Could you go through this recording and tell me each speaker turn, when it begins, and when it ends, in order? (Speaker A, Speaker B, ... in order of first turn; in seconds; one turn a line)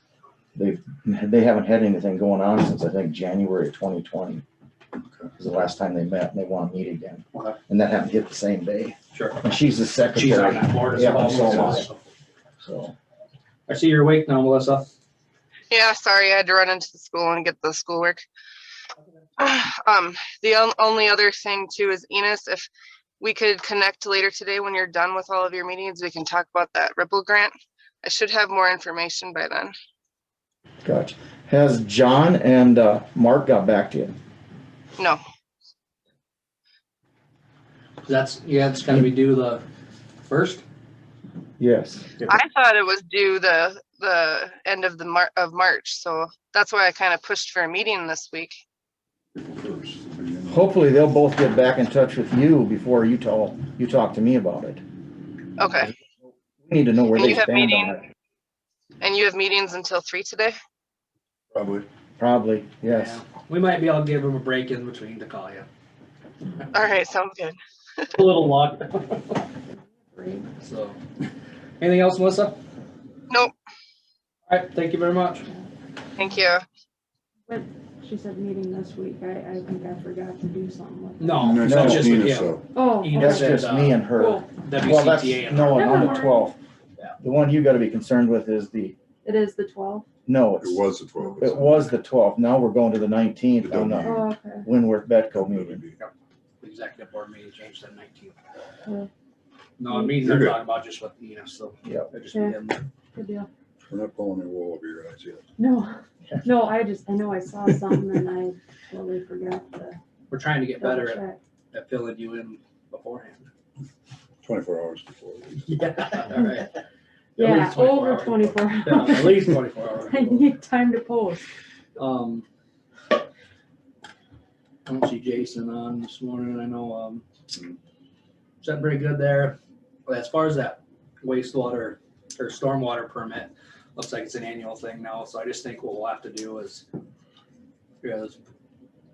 Speaker A: 0.5-4.4
Speaker B: 5.0-5.3
Speaker A: 5.4-11.8
Speaker C: 9.1-9.4
Speaker C: 10.1-12.0
Speaker A: 12.6-12.9
Speaker C: 13.7-14.8
Speaker D: 15.7-18.2
Speaker D: 19.4-22.7
Speaker D: 23.2-29.7
Speaker A: 30.8-34.1
Speaker C: 38.0-39.6
Speaker C: 40.2-40.6
Speaker A: 41.6-42.1
Speaker D: 42.3-48.6
Speaker B: 49.4-50.8
Speaker A: 50.5-54.8
Speaker D: 55.6-55.9
Speaker A: 56.3-58.0
Speaker D: 57.1-58.0
Speaker D: 59.0-60.5
Speaker B: 61.5-61.9
Speaker A: 62.2-63.2
Speaker C: 62.9-65.7
Speaker D: 66.7-67.6
Speaker C: 68.1-69.4
Speaker E: 69.7-70.5
Speaker C: 70.6-71.0
Speaker C: 71.8-72.6
Speaker C: 74.5-75.5
Speaker D: 76.2-76.6
Speaker E: 77.5-81.5
Speaker C: 81.2-86.3
Speaker B: 81.3-82.8
Speaker A: 81.6-82.2
Speaker E: 82.7-84.5
Speaker A: 83.1-86.5
Speaker E: 85.7-86.5
Speaker A: 87.2-88.9
Speaker E: 89.2-90.0
Speaker A: 90.2-90.8
Speaker B: 90.6-91.9
Speaker A: 91.4-95.8
Speaker B: 93.6-94.3
Speaker E: 94.0-94.7
Speaker B: 95.3-96.0
Speaker C: 96.0-98.3
Speaker C: 99.8-102.8
Speaker B: 100.2-100.6
Speaker E: 103.1-103.5
Speaker B: 103.9-105.4
Speaker E: 105.6-110.0
Speaker C: 110.3-113.5
Speaker E: 110.8-111.4
Speaker B: 114.4-115.9
Speaker C: 115.7-116.8
Speaker C: 117.3-120.5
Speaker E: 117.3-121.5
Speaker C: 122.0-122.5
Speaker C: 124.8-127.2
Speaker C: 128.6-136.8
Speaker C: 138.0-138.4